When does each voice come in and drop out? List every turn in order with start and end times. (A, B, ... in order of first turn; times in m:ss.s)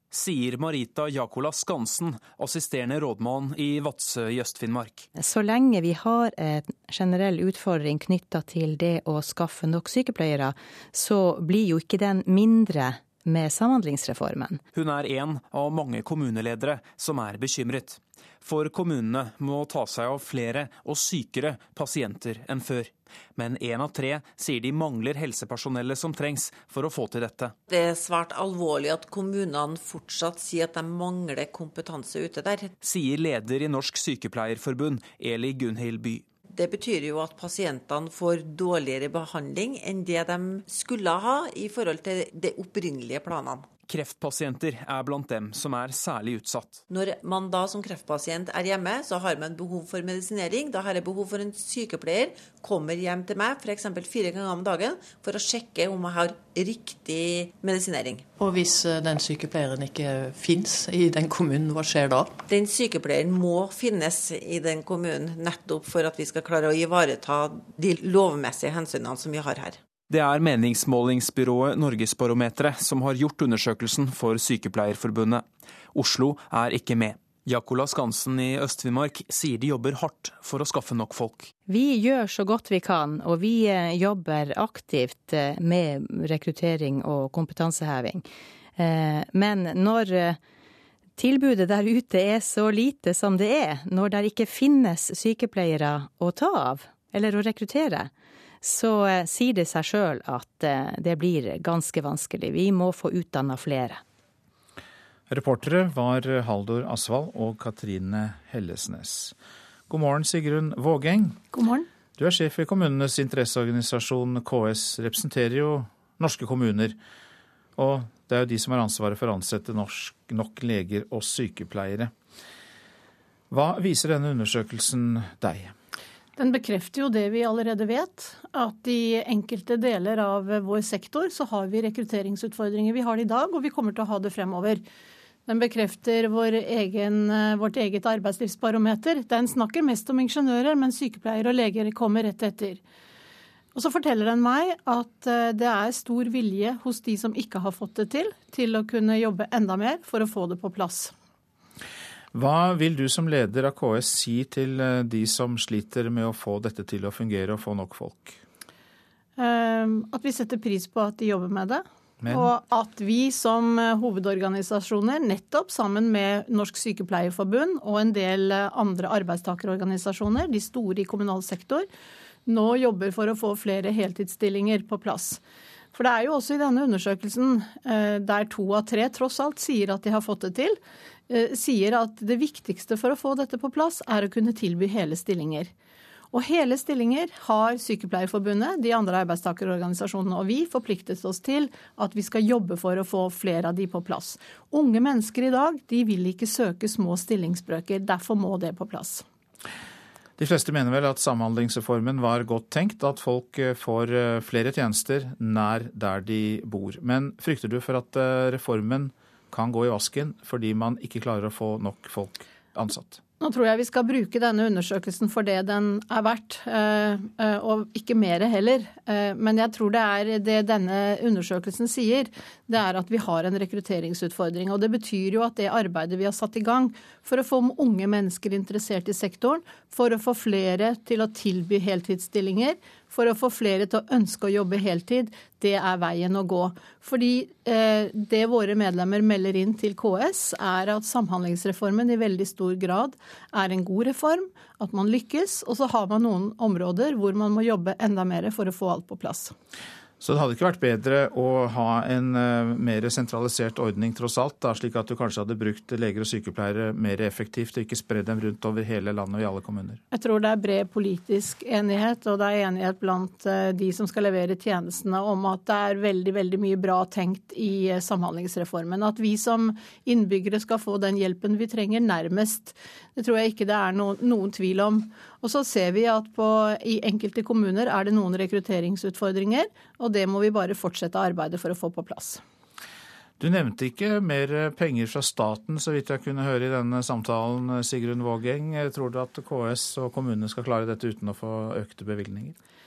0:00.1-0:05.1 A
0:05.1-0:14.6 B
0:14.7-0:27.5 A
0:27.7-0:32.7 C
0:32.8-0:36.2 A
0:36.5-0:43.7 C
0:43.9-0:46.8 A
0:46.9-0:58.3 C
0:58.4-1:02.0 D
1:02.4-1:09.8 C
1:10.1-1:21.5 A
1:21.6-1:28.2 B
1:28.8-1:30.4 B
1:31.2-1:38.1 B
1:38.6-1:44.0 B
1:45.3-1:49.3 E
1:49.9-1:51.4 E
1:51.5-1:51.9 F
1:52.2-1:57.0 E
1:57.8-2:02.1 E
2:03.5-2:05.7 E
2:06.4-2:14.8 F
2:15.4-2:22.8 F
2:23.7-2:31.1 F
2:32.3-2:38.4 E
2:39.4-2:51.9 F
2:42.2-2:42.5 E
2:52.5-2:55.4 F
2:55.9-3:05.7 F
3:06.3-3:19.2 F
3:20.4-3:33.2 E
3:33.4-4:09.5 F
4:10.2-4:20.0 E
4:20.1-4:42.4 F
4:43.4-4:52.6 E